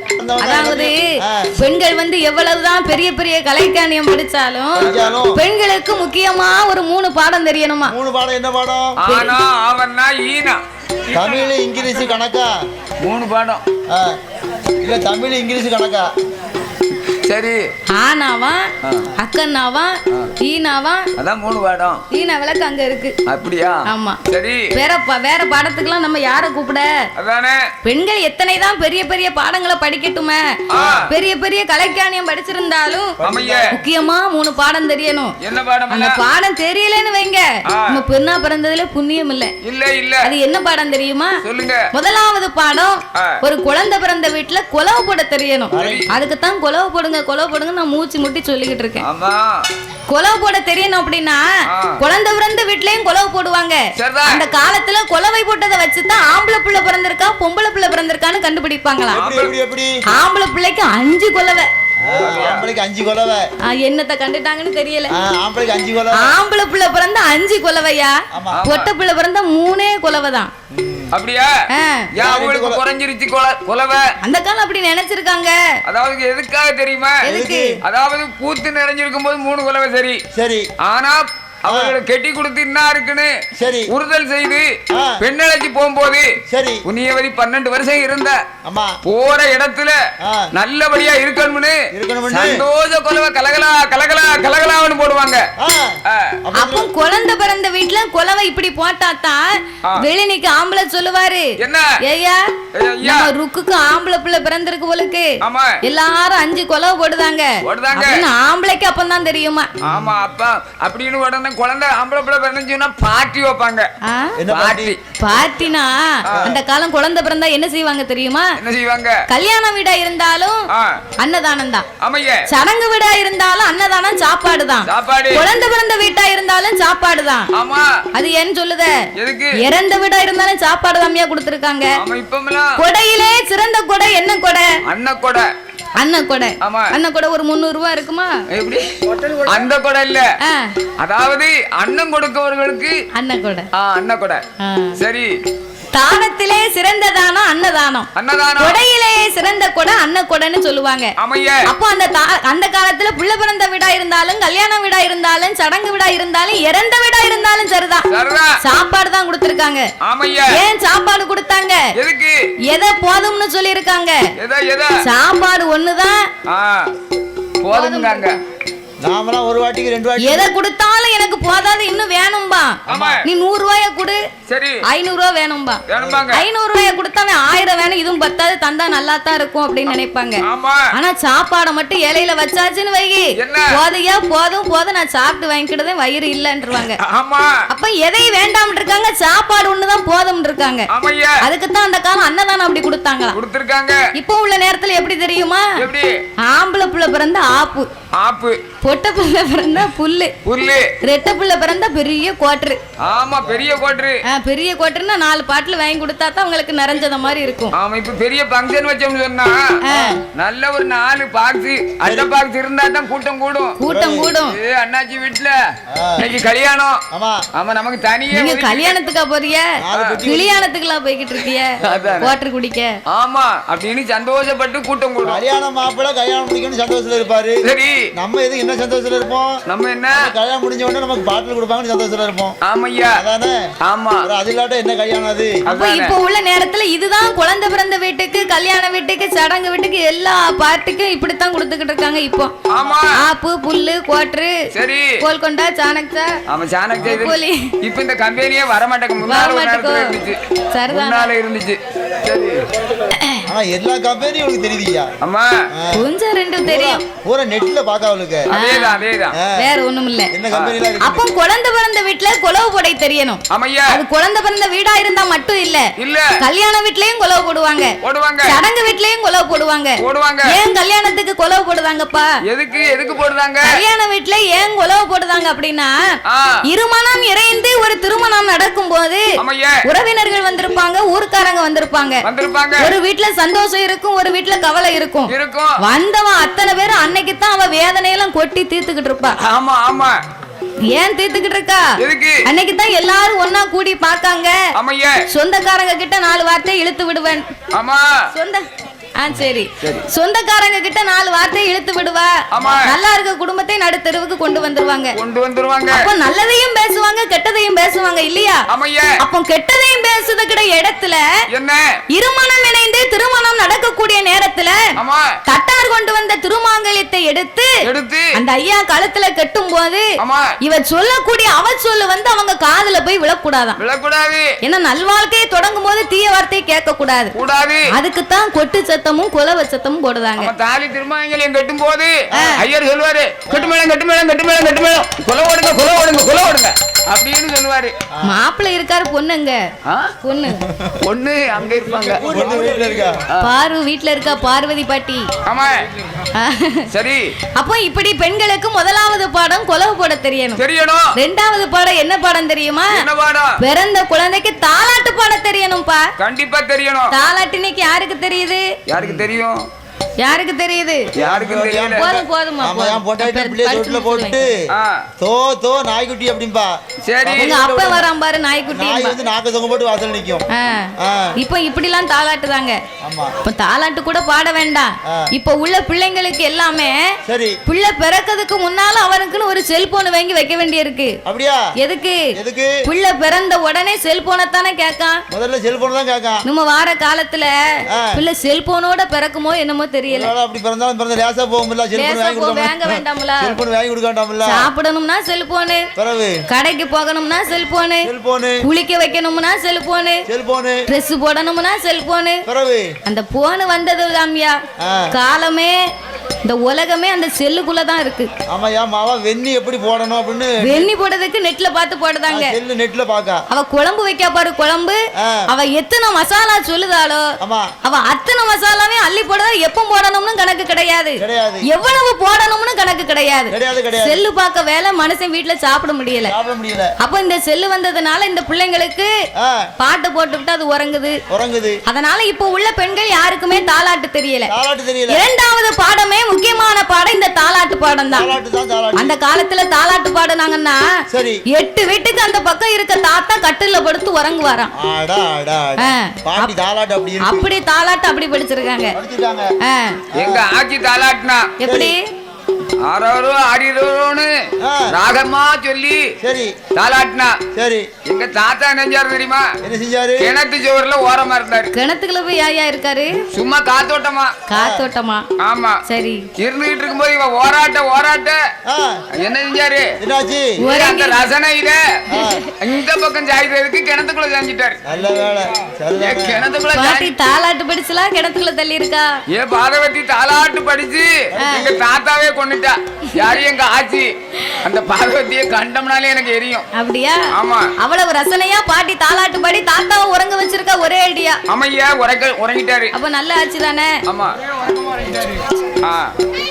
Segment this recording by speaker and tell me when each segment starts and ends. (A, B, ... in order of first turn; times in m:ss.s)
0:00.2-0:01.5 A
0:00.4-0:08.0 B
0:04.8-0:05.4 A
0:04.8-0:05.1 C
0:07.9-0:09.0 A
0:09.0-0:10.6 C
0:09.1-0:09.3 B
0:11.1-0:12.5 A
0:13.0-0:13.6 C
0:13.9-0:14.2 A
0:14.8-0:16.1 A
0:17.2-0:17.6 C
0:17.9-0:18.6 B
0:19.2-0:21.1 B
0:21.2-0:22.0 C
0:22.1-0:23.1 B
0:23.3-0:24.7 C
0:23.9-0:24.2 B
0:24.7-0:26.9 B
0:27.2-0:27.6 C
0:27.8-0:30.4 B
0:30.7-0:31.0 C
0:30.7-0:31.0 A
0:31.0-0:33.2 B
0:33.2-0:33.7 A
0:33.2-0:33.7 C
0:33.7-0:35.3 B
0:35.4-0:36.2 C
0:35.9-0:39.5 B
0:37.7-0:38.0 C
0:39.6-0:40.3 C
0:40.2-0:41.4 B
0:41.4-0:41.8 C
0:41.9-0:49.0 B
0:45.7-0:46.1 A
0:45.7-0:46.1 C
0:49.0-0:49.6 C
0:50.1-0:51.4 B
0:52.0-0:59.2 B
0:54.0-0:54.4 C
0:59.1-1:00.0 A
0:59.2-0:59.5 C
1:00.1-1:01.7 B
1:02.0-1:03.4 A
1:02.2-1:02.7 C
1:03.7-1:05.1 B
1:05.1-1:06.3 A
1:06.2-1:08.2 B
1:08.3-1:08.6 A
1:08.5-1:08.9 C
1:08.7-1:10.5 B
1:10.7-1:11.1 A
1:11.1-1:11.5 C
1:11.7-1:12.1 B
1:12.2-1:14.0 C
1:12.2-1:12.8 A
1:14.2-1:15.5 B
1:15.8-1:17.2 C
1:17.2-1:17.7 B
1:17.3-1:17.7 A
1:17.8-1:20.2 C
1:20.3-1:20.7 A
1:20.8-1:23.3 C
1:21.7-1:21.9 A
1:23.6-1:23.9 A
1:23.9-1:26.3 C
1:24.9-1:25.2 A
1:26.5-1:26.8 A
1:26.9-1:28.4 C
1:28.6-1:29.0 A
1:29.0-1:30.0 C
1:30.2-1:30.5 A
1:30.5-1:31.8 C
1:31.9-1:32.6 A
1:32.3-1:35.4 C
1:35.6-1:36.9 A
1:36.1-1:36.3 C
1:36.6-1:39.4 B
1:40.0-1:41.5 B
1:41.6-1:41.8 C
1:42.0-1:42.4 B
1:42.8-1:43.3 C
1:43.0-1:45.3 B
1:45.4-1:45.8 C
1:45.8-1:49.7 B
1:47.6-1:48.2 C
1:49.8-1:53.9 C
1:54.1-1:54.3 B
1:54.4-1:54.9 A
1:54.5-1:55.0 C
1:55.2-1:58.5 B
1:56.2-1:56.6 C
1:58.6-1:59.2 C
1:59.3-2:00.6 B
2:01.2-2:01.8 B
2:02.0-2:02.4 C
2:02.5-2:07.5 B
2:04.8-2:05.5 C
2:07.6-2:07.9 C
2:08.1-2:08.9 B
2:09.2-2:09.5 C
2:09.6-2:11.9 B
2:12.0-2:12.8 C
2:12.8-2:14.7 B
2:14.9-2:15.4 C
2:16.0-2:18.3 B
2:16.6-2:16.9 C
2:18.5-2:18.9 C
2:19.4-2:20.3 C
2:20.4-2:20.7 B
2:21.0-2:23.0 C
2:23.1-2:23.7 B
2:23.7-2:24.4 C
2:24.6-2:25.0 B
2:25.0-2:25.3 C
2:25.9-2:31.1 B
2:28.2-2:28.8 C
2:31.2-2:31.6 C
2:31.7-2:38.1 B
2:38.1-2:38.5 C
2:38.6-2:39.8 B
2:40.0-2:40.5 C
2:40.5-2:41.8 B
2:42.0-2:42.3 C
2:42.7-2:44.2 B
2:44.4-2:44.9 C
2:45.0-2:46.2 B
2:46.5-2:46.9 C
2:47.6-2:48.4 C
2:47.7-2:48.3 B
2:49.0-2:50.5 A
2:50.2-2:54.2 B
2:52.9-2:53.2 A
2:52.9-2:53.2 C
2:54.5-2:54.8 C
2:54.8-3:00.4 B
2:55.9-2:56.4 C
3:00.4-3:00.9 C
3:00.9-3:07.0 B
3:03.4-3:03.7 C
3:06.8-3:07.5 C
3:07.7-3:10.9 B
3:10.9-3:11.4 C
3:11.4-3:13.4 B
3:13.3-3:14.0 C
3:14.1-3:15.7 B
3:15.8-3:16.1 C
3:16.4-3:17.9 B
3:18.2-3:18.6 C
3:18.8-3:20.3 B
3:20.4-3:20.9 C
3:21.0-3:22.8 B
3:23.0-3:24.2 C
3:24.3-3:27.7 B
3:27.8-3:29.6 C
3:29.8-3:30.2 B
3:29.9-3:30.2 A
3:30.3-3:33.8 C
3:32.0-3:32.3 A
3:33.8-3:34.6 B
3:33.9-3:34.3 A
3:34.4-3:35.5 C
3:35.9-3:36.3 A
3:36.2-3:37.0 C
3:37.1-3:37.4 A
3:37.6-3:39.0 C
3:38.3-3:39.7 B
3:39.8-3:40.6 A
3:39.9-3:40.2 C
3:40.2-3:41.7 B
3:41.8-3:42.3 C
3:41.9-3:42.3 A
3:42.2-3:42.9 B
3:43.1-3:45.4 C
3:45.2-3:47.6 A
3:47.6-3:48.0 C
3:48.1-3:49.6 A
3:49.7-3:50.3 C
3:50.1-3:52.6 A
3:52.7-3:53.2 C
3:53.1-3:53.7 A
3:53.8-3:54.3 C
3:54.2-3:55.6 A
3:55.7-3:56.1 C
3:55.7-4:02.5 B
4:02.7-4:03.1 C
4:03.1-4:04.6 B
4:04.7-4:05.1 C
4:05.2-4:06.3 B
4:06.5-4:12.6 C
4:07.0-4:07.7 B
4:09.2-4:10.2 B
4:10.7-4:11.3 B
4:13.1-4:13.4 B
4:13.5-4:15.1 A
4:15.2-4:15.5 C
4:15.7-4:16.0 A
4:15.9-4:17.0 B
4:16.6-4:18.5 A
4:18.5-4:19.0 B
4:18.5-4:19.4 C
4:19.6-4:20.3 B
4:20.3-4:21.2 A
4:20.5-4:20.8 C
4:21.0-4:27.9 B
4:23.5-4:24.0 C
4:26.0-4:26.3 C
4:28.0-4:28.6 C
4:28.5-4:32.3 B
4:30.0-4:30.6 C
4:32.5-4:33.8 C
4:33.6-4:35.9 B
4:36.7-4:39.2 B
4:39.4-4:39.7 C
4:39.8-4:42.2 B
4:42.2-4:43.0 C
4:42.8-4:49.4 B
4:45.3-4:45.8 C
4:49.4-4:50.1 C
4:50.9-4:51.9 B
4:52.0-4:52.4 C
4:52.4-4:54.6 B
4:54.8-4:55.2 C
4:55.3-4:57.4 B
4:57.7-4:58.1 C
4:58.3-4:58.6 B
4:59.2-5:05.2 B
5:02.5-5:02.8 C
5:05.2-5:06.1 C
5:05.9-5:08.6 B
5:08.7-5:09.1 C
5:09.2-5:11.2 B
5:11.5-5:11.8 C
5:12.1-5:14.8 B
5:15.0-5:15.3 C
5:15.5-5:17.7 B
5:17.8-5:18.3 C
5:18.3-5:20.1 B
5:20.2-5:20.5 C
5:20.6-5:23.8 B
5:23.8-5:24.5 C
5:24.6-5:27.3 B
5:27.4-5:27.8 C
5:27.9-5:30.5 B
5:30.4-5:37.9 C
5:32.3-5:32.6 A
5:32.3-5:32.6 B
5:33.5-5:33.8 A
5:38.1-5:38.4 A
5:38.2-5:39.6 B
5:39.9-5:40.1 C
5:40.2-5:40.6 B
5:40.6-5:41.0 A
5:41.0-5:42.3 C
5:42.2-5:43.2 A
5:43.4-5:45.2 B
5:45.5-5:45.8 C
5:46.4-5:46.9 B
5:46.9-5:47.3 C
5:47.6-5:50.6 B
5:50.6-5:51.1 C
5:51.1-5:53.0 B
5:52.9-5:53.5 C
5:53.6-5:56.0 B
5:56.2-5:57.1 C
5:57.1-5:58.6 B
5:58.9-5:59.6 C
6:00.2-6:01.0 B
6:01.2-6:02.0 C
6:01.2-6:04.6 A
6:02.0-6:04.4 B
6:04.7-6:05.0 C
6:05.2-6:08.1 A
6:07.0-6:07.6 C
6:07.3-6:09.2 B
6:08.7-6:10.5 A
6:10.5-6:12.8 B
6:11.0-6:11.3 A
6:13.0-6:13.3 A
6:13.4-6:17.0 B
6:17.2-6:17.6 A
6:17.7-6:21.1 B
6:21.2-6:21.6 A
6:21.8-6:22.2 B
6:22.4-6:22.8 A
6:22.9-6:25.2 B
6:25.3-6:26.4 A
6:26.5-6:27.5 B
6:27.9-6:28.2 A
6:28.1-6:30.3 B
6:30.1-6:34.7 A
6:31.9-6:33.6 B
6:34.4-6:35.9 B
6:36.0-6:36.4 A
6:36.5-6:38.1 B
6:38.0-6:38.6 A
6:38.6-6:40.2 B
6:40.3-6:40.8 A
6:40.9-6:42.4 B
6:42.5-6:42.9 A
6:43.1-6:44.6 B
6:44.8-6:45.1 A
6:45.1-6:45.8 B
6:46.4-6:48.3 B
6:48.5-6:50.9 A
6:50.6-6:52.6 B
6:52.3-6:53.4 A
6:53.5-6:57.2 B
6:55.2-6:55.4 A
6:57.4-6:57.7 A
6:57.8-7:06.3 B
7:01.2-7:01.6 A
7:03.5-7:04.2 A
7:06.3-7:06.9 A
7:07.0-7:09.1 B
7:09.4-7:09.7 A
7:09.8-7:11.2 B
7:11.3-7:11.8 A
7:11.9-7:14.5 B
7:14.5-7:15.2 A
7:15.1-7:18.3 B
7:18.1-7:19.1 A
7:19.0-7:20.8 B
7:21.1-7:21.4 A
7:21.5-7:24.7 B
7:24.8-7:27.5 A
7:25.8-7:26.5 B
7:27.2-7:28.9 B
7:29.0-7:29.5 A
7:29.6-7:30.0 B
7:30.2-7:30.4 A
7:30.2-7:31.6 C
7:31.6-7:32.0 B
7:31.6-7:31.9 A
7:32.9-7:34.3 C
7:34.6-7:35.0 A
7:34.9-7:36.0 C
7:36.2-7:36.5 A
7:36.8-7:37.4 C
7:37.5-7:37.9 A
7:38.1-7:39.5 C
7:39.6-7:40.3 A
7:40.2-7:41.7 C
7:41.7-7:43.1 B
7:43.3-7:44.4 C
7:44.5-7:45.2 B
7:44.5-7:44.8 A
7:45.4-7:45.8 C
7:45.9-7:46.2 B
7:46.4-7:48.4 C
7:48.7-7:49.0 A
7:49.2-7:49.9 C
7:50.0-7:50.6 A
7:50.6-7:51.2 B
7:50.6-7:51.8 C
7:52.1-7:52.4 A
7:52.1-7:52.5 B
7:52.6-7:54.8 C
7:54.9-7:56.4 A
7:56.0-7:57.1 C
7:56.7-7:59.1 B
7:59.3-8:04.1 C
8:01.3-8:01.8 A
8:01.4-8:01.6 B
8:04.6-8:06.7 C
8:06.8-8:07.2 B
8:07.4-8:07.7 C
8:07.8-8:11.4 B
8:11.5-8:12.9 C
8:12.9-8:13.9 B
8:14.1-8:14.3 C
8:15.8-8:16.1 C